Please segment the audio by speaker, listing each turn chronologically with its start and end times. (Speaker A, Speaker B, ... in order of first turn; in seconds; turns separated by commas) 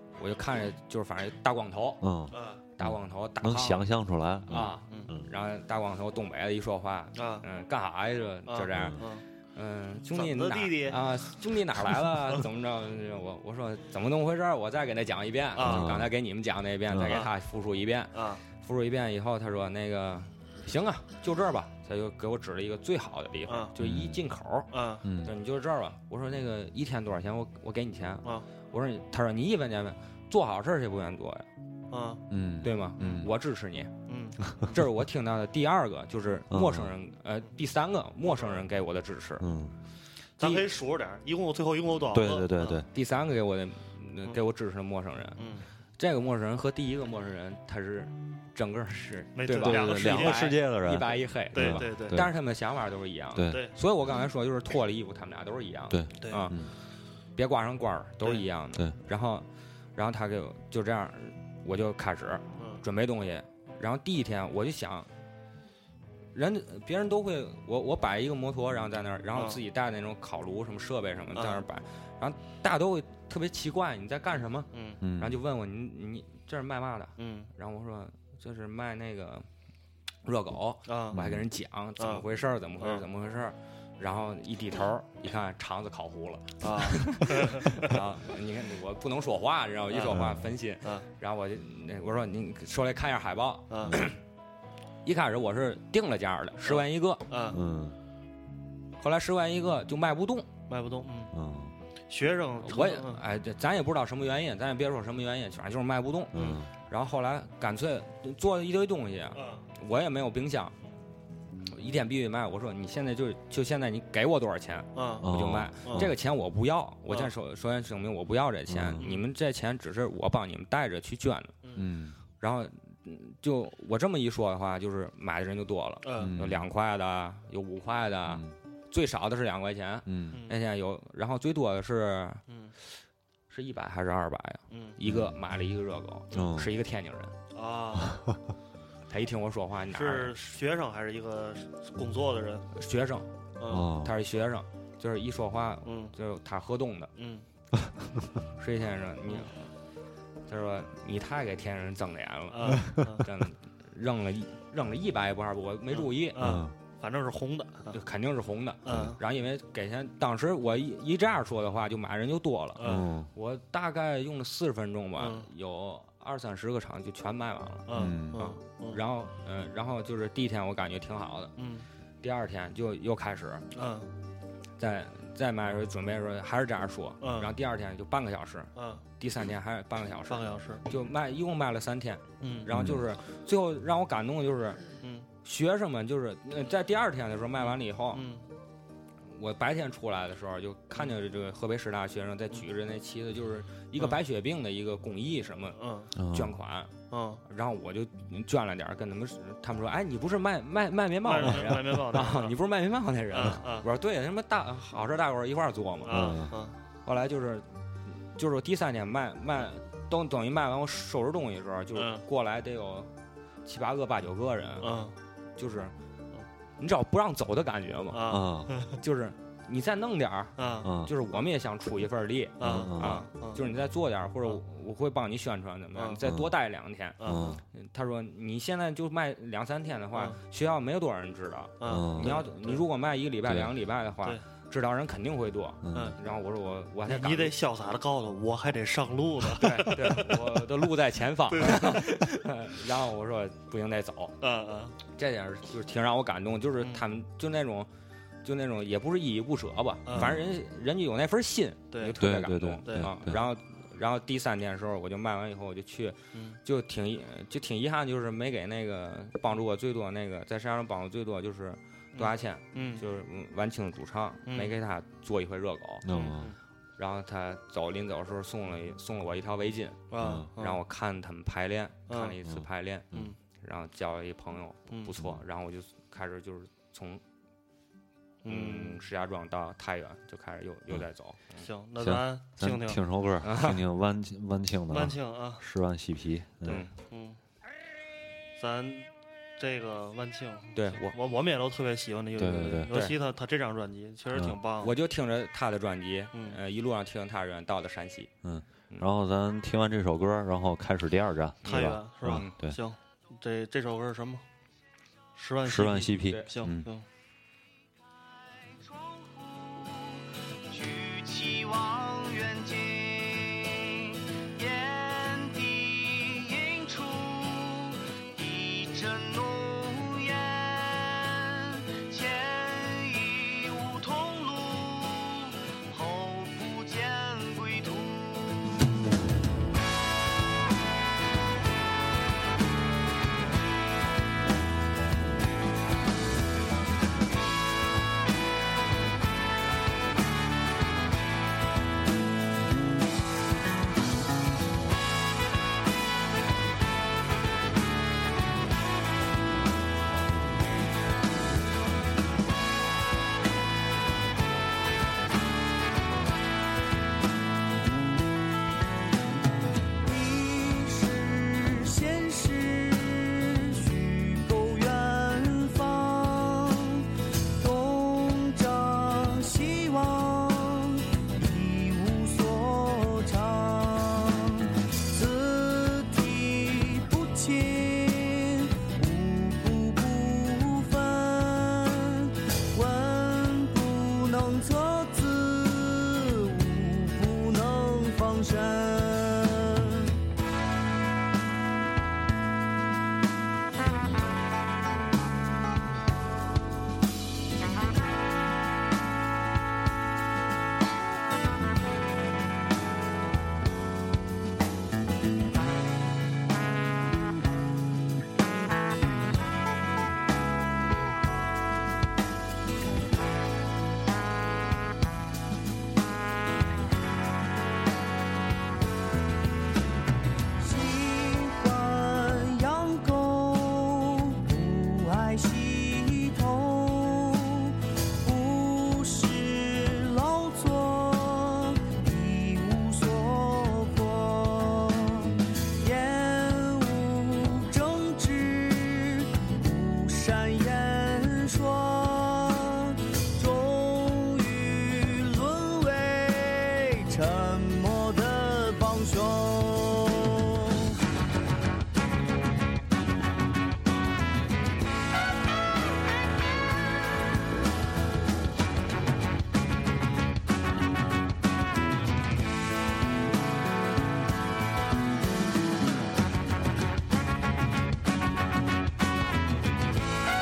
Speaker A: 0.2-2.0, Speaker B: 2.0-5.3, Speaker C: 2.3-2.6, Speaker A: 2.8-3.9, Speaker A: 4.5-31.4, Speaker C: 4.6-5.1, Speaker C: 7.2-7.4, Speaker C: 8.5-9.2, Speaker B: 8.7-9.0, Speaker C: 10.1-11.0, Speaker C: 15.6-15.9, Speaker B: 15.6-16.1, Speaker B: 16.9-17.2, Speaker C: 18.1-18.4, Speaker B: 23.8-24.2, Speaker C: 24.7-25.0, Speaker B: 25.0-25.3, Speaker C: 31.9-32.2, Speaker B: 32.3-33.3, Speaker A: 32.6-33.9, Speaker C: 34.1-34.4, Speaker A: 34.7-39.5, Speaker B: 36.5-36.9, Speaker C: 38.2-38.6, Speaker B: 39.4-39.8, Speaker A: 40.4-40.7, Speaker C: 40.4-42.8, Speaker B: 42.1-42.9, Speaker A: 42.9-45.4, Speaker C: 45.4-45.6, Speaker A: 46.0-56.6, Speaker C: 49.4-50.5, Speaker B: 49.5-52.3, Speaker C: 51.5-52.2, Speaker B: 53.3-53.6, Speaker B: 55.9-56.7, Speaker A: 57.4-65.1, Speaker C: 62.6-62.8, Speaker A: 66.3-79.5, Speaker C: 69.3-69.6, Speaker C: 71.3-71.6, Speaker C: 74.7-75.0, Speaker B: 75.0-75.4, Speaker C: 77.2-77.5, Speaker A: 80.2-94.2, Speaker C: 80.9-81.2, Speaker B: 81.1-81.4, Speaker C: 82.0-82.2, Speaker C: 82.8-83.0, Speaker C: 86.6-87.8, Speaker C: 89.9-90.2, Speaker B: 90.1-90.4, Speaker C: 93.7-94.0, Speaker A: 95.0-97.2, Speaker C: 96.6-97.6, Speaker B: 97.5-98.0, Speaker A: 99.0-100.5, Speaker C: 100.7-101.3, Speaker B: 101.3-101.7, Speaker C: 102.1-103.2, Speaker A: 102.6-110.7, Speaker B: 106.3-106.7, Speaker C: 106.3-106.6, Speaker C: 109.3-109.6, Speaker A: 111.7-121.5, Speaker C: 114.9-115.3, Speaker B: 115.2-116.1, Speaker C: 115.8-116.1, Speaker B: 118.7-119.0, Speaker C: 119.0-119.2, Speaker B: 121.8-122.2, Speaker A: 122.4-132.4, Speaker C: 126.0-126.3, Speaker B: 126.2-126.6, Speaker B: 128.3-128.5, Speaker B: 130.1-130.4, Speaker C: 130.3-130.6, Speaker A: 133.5-137.3, Speaker B: 135.0-135.4, Speaker B: 136.3-136.7, Speaker C: 137.5-138.2, Speaker A: 139.1-140.3, Speaker C: 139.9-142.7, Speaker A: 142.7-143.3, Speaker C: 143.6-143.9, Speaker B: 143.7-144.2, Speaker A: 144.0-147.1, Speaker C: 145.8-146.1, Speaker C: 147.2-147.4, Speaker A: 148.6-149.6, Speaker A: 150.5-156.6, Speaker C: 152.5-153.2, Speaker C: 155.9-158.0, Speaker B: 156.4-156.7, Speaker A: 157.9-171.5, Speaker C: 158.8-159.2, Speaker C: 162.8-163.1, Speaker B: 162.8-163.3, Speaker C: 165.2-165.5, Speaker C: 167.9-169.0, Speaker B: 167.9-168.4, Speaker C: 171.6-171.8, Speaker A: 172.2-173.7, Speaker C: 173.7-174.1, Speaker A: 174.8-184.8, Speaker C: 177.2-177.5, Speaker C: 178.8-179.0, Speaker C: 180.3-180.8, Speaker C: 182.4-182.7, Speaker B: 182.7-183.0, Speaker A: 185.4-188.2, Speaker C: 187.6-188.4, Speaker A: 189.3-196.9, Speaker C: 195.7-196.1, Speaker B: 196.2-196.6, Speaker C: 197.1-197.4, Speaker A: 197.4-206.3, Speaker C: 201.2-202.5, Speaker C: 203.3-203.9, Speaker C: 206.1-206.7, Speaker B: 206.1-206.5, Speaker A: 207.0-207.7, Speaker A: 208.3-213.1, Speaker C: 211.9-212.2, Speaker A: 213.6-215.0, Speaker C: 214.8-215.1, Speaker A: 215.6-215.9, Speaker A: 216.8-218.4, Speaker C: 218.1-218.9, Speaker B: 218.3-218.7, Speaker A: 219.0-237.5, Speaker C: 220.6-220.9, Speaker B: 220.8-221.1, Speaker C: 222.6-223.6, Speaker B: 222.6-223.2, Speaker B: 226.2-226.5, Speaker C: 227.2-227.6, Speaker B: 227.2-227.6, Speaker C: 231.8-232.8, Speaker B: 231.9-232.4, Speaker B: 233.4-233.7, Speaker B: 235.8-236.1, Speaker C: 237.1-240.4, Speaker A: 239.6-244.3, Speaker C: 241.5-242.1, Speaker C: 244.4-245.0, Speaker A: 245.1-247.9, Speaker A: 248.4-266.1, Speaker C: 250.1-250.3, Speaker B: 250.2-250.4, Speaker C: 251.9-252.2, Speaker B: 252.2-253.4, Speaker C: 262.1-263.0, Speaker C: 264.5-264.7, Speaker B: 266.0-266.5, Speaker C: 266.1-266.6, Speaker A: 267.0-277.2, Speaker C: 270.1-270.8, Speaker B: 270.2-270.5, Speaker C: 272.1-272.3, Speaker B: 272.4-273.3, Speaker B: 275.2-275.4, Speaker C: 278.4-279.0, Speaker A: 278.5-281.6, Speaker C: 281.6-283.0, Speaker B: 282.0-286.8, Speaker A: 283.4-283.8, Speaker C: 284.9-285.6, Speaker A: 286.7-286.9, Speaker C: 286.7-287.4, Speaker C: 288.6-294.9, Speaker A: 290.7-291.1, Speaker B: 292.4-292.9, Speaker A: 292.9-293.2, Speaker A: 294.8-298.3, Speaker B: 298.4-302.8, Speaker C: 301.6-304.4, Speaker A: 301.6-302.5, Speaker C: 305.4-307.0, Speaker B: 305.6-306.9, Speaker D: 309.0-328.6, Speaker D: 360.0-390.2, Speaker D: 420.6-450.9